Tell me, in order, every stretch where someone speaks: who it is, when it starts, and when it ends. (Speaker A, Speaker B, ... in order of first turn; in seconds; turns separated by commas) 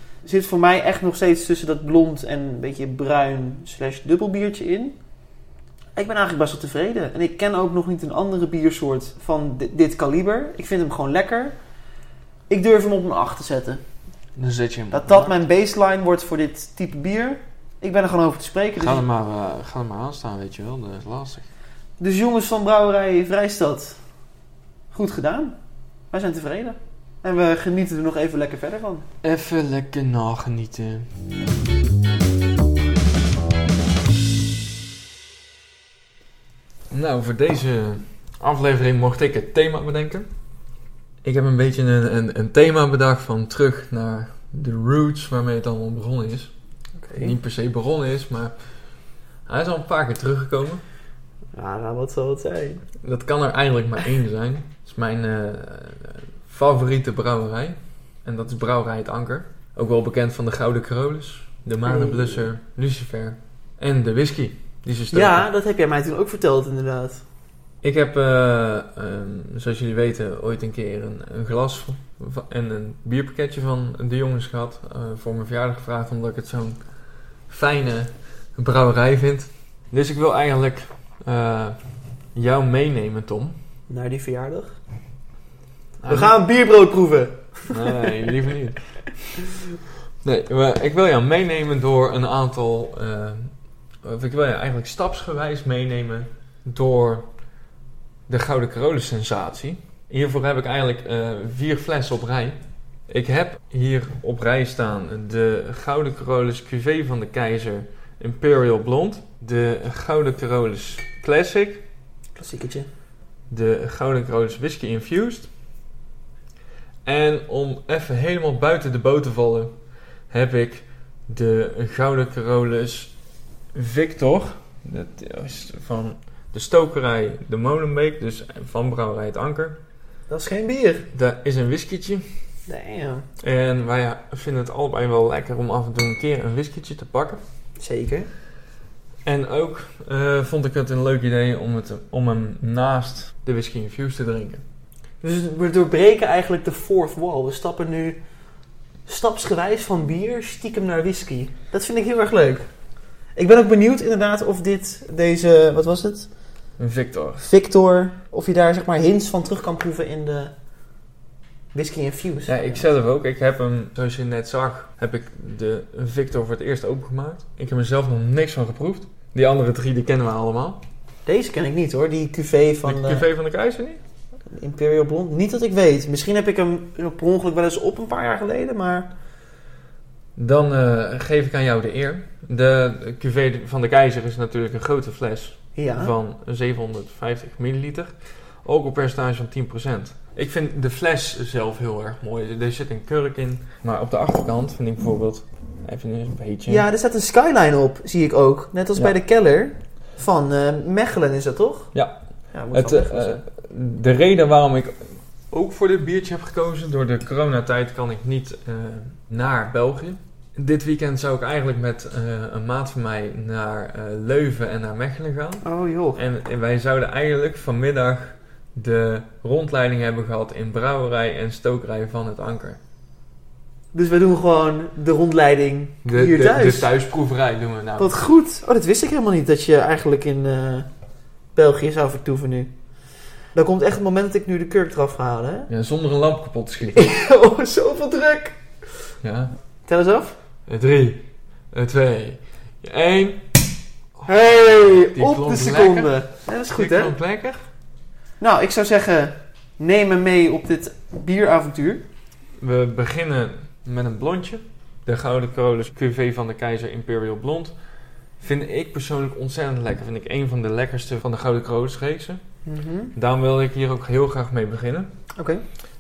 Speaker A: 0.2-5.0, Speaker A: 6.0-11.6, Speaker A: 12.5-13.8, Speaker B: 14.3-15.4, Speaker A: 14.9-19.0, Speaker B: 18.8-21.5, Speaker A: 22.0-24.0, Speaker A: 24.9-25.6, Speaker A: 26.1-29.1, Speaker B: 29.2-31.1, Speaker B: 36.9-40.3, Speaker B: 41.2-46.5, Speaker A: 47.0-47.4, Speaker B: 47.1-48.6, Speaker B: 49.5-50.8, Speaker A: 51.5-52.8, Speaker B: 53.0-65.5, Speaker A: 61.9-62.5, Speaker A: 65.1-67.2, Speaker B: 67.8-76.8, Speaker B: 77.5-81.8, Speaker B: 82.3-83.6, Speaker A: 83.9-84.8, Speaker B: 86.0-86.3, Speaker A: 86.1-88.3, Speaker B: 87.7-97.3, Speaker B: 98.3-111.8, Speaker A: 112.4-112.9, Speaker B: 113.5-115.5, Speaker B: 117.0-119.7, Speaker B: 120.3-123.1, Speaker B: 123.7-129.8, Speaker A: 130.3-131.1, Speaker B: 131.1-132.3, Speaker A: 132.7-133.3, Speaker B: 133.4-137.4, Speaker A: 137.8-138.3, Speaker B: 139.2-144.6, Speaker A: 145.2-148.2, Speaker A: 149.1-152.7, Speaker A: 153.4-156.3, Speaker B: 156.8-157.5, Speaker A: 157.4-160.5, Speaker A: 161.7-162.9, Speaker B: 162.5-170.8, Speaker A: 171.3-173.3, Speaker B: 172.8-174.0, Speaker A: 174.5-179.1, Speaker B: 180.4-196.8, Speaker A: 185.8-186.1, Speaker A: 196.7-201.9, Speaker A: 202.5-203.4, Speaker B: 202.7-222.8, Speaker A: 215.6-216.2, Speaker A: 223.9-226.9, Speaker B: 226.1-228.1, Speaker A: 228.0-230.9, Speaker A: 231.6-232.7, Speaker A: 233.6-235.7, Speaker B: 235.7-237.1, Speaker A: 236.9-238.6, Speaker B: 239.2-239.6, Speaker A: 239.9-240.4, Speaker B: 240.7-243.6, Speaker B: 244.2-247.7, Speaker A: 244.3-247.1, Speaker A: 248.4-252.1, Speaker B: 252.6-257.8, Speaker B: 258.4-262.4, Speaker A: 262.7-263.1, Speaker B: 263.1-265.1, Speaker A: 265.4-265.6